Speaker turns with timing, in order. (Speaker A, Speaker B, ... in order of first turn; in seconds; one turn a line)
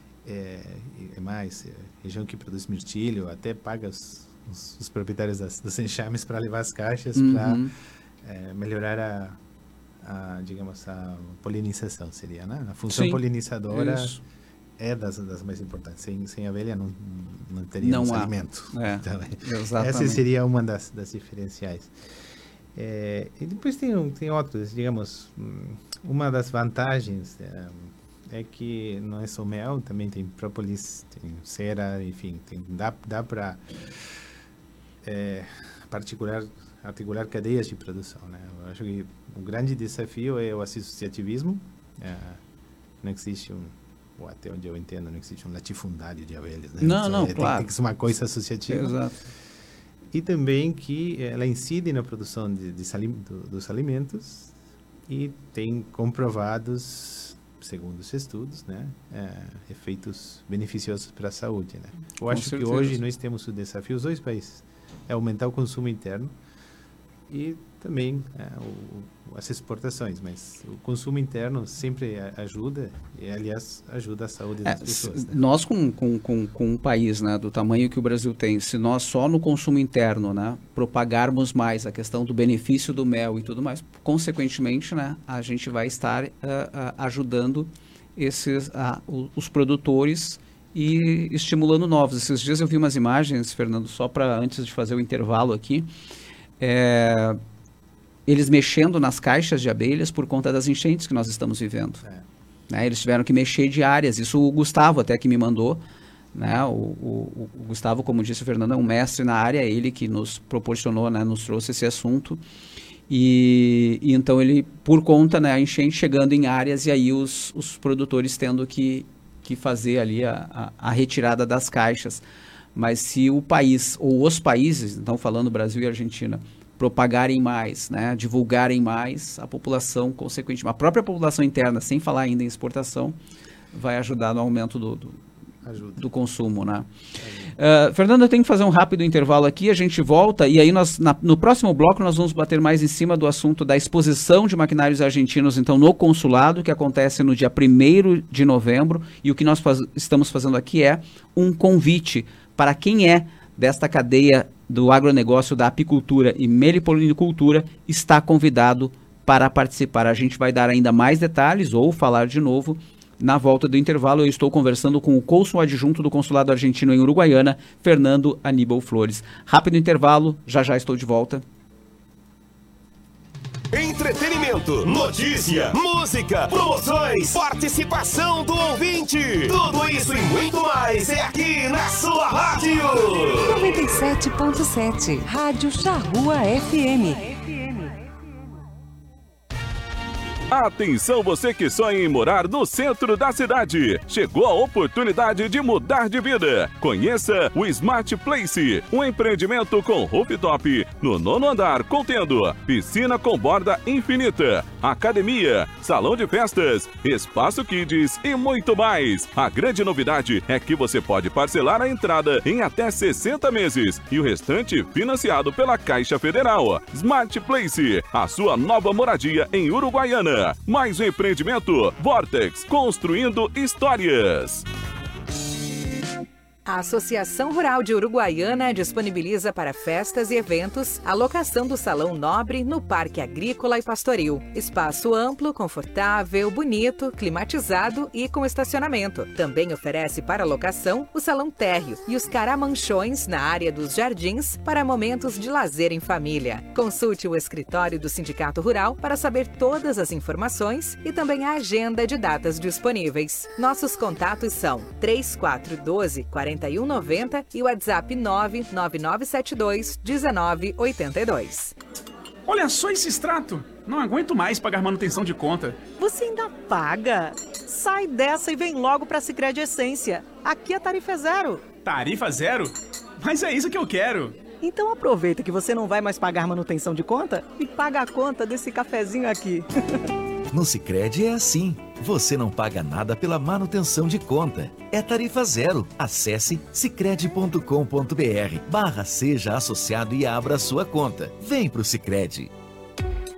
Speaker A: 0.2-7.7
Speaker B: 7.2-7.7
Speaker A: 8.2-9.4
Speaker A: 10.0-14.2
Speaker B: 12.9-13.2
Speaker B: 13.7-14.2
Speaker A: 14.8-21.9
Speaker B: 17.8-20.2
Speaker A: 22.8-33.6
Speaker A: 35.0-42.4
Speaker A: 43.0-49.0
Speaker B: 46.8-47.7
Speaker B: 48.7-49.2
Speaker A: 50.1-54.5
Speaker A: 55.1-66.4
Speaker B: 62.3-63.0
Speaker A: 67.3-75.4
Speaker B: 74.6-95.9
Speaker B: 96.6-97.4
Speaker B: 98.3-102.0
Speaker B: 102.7-105.8
Speaker B: 106.3-112.4
Speaker B: 113.1-122.2
Speaker B: 122.8-133.2
Speaker B: 133.7-135.2
Speaker A: 135.6-136.1
Speaker B: 136.0-136.9
Speaker A: 137.2-137.5
Speaker B: 137.6-171.4
Speaker C: 173.7-183.6
Speaker D: 183.4-187.9
Speaker E: 190.5-224.7
Speaker F: 226.7-261.8
Speaker G: 262.5-265.8
Speaker H: 266.0-271.7
Speaker G: 271.8-274.4
Speaker H: 274.6-279.9
Speaker I: 280.5-292.5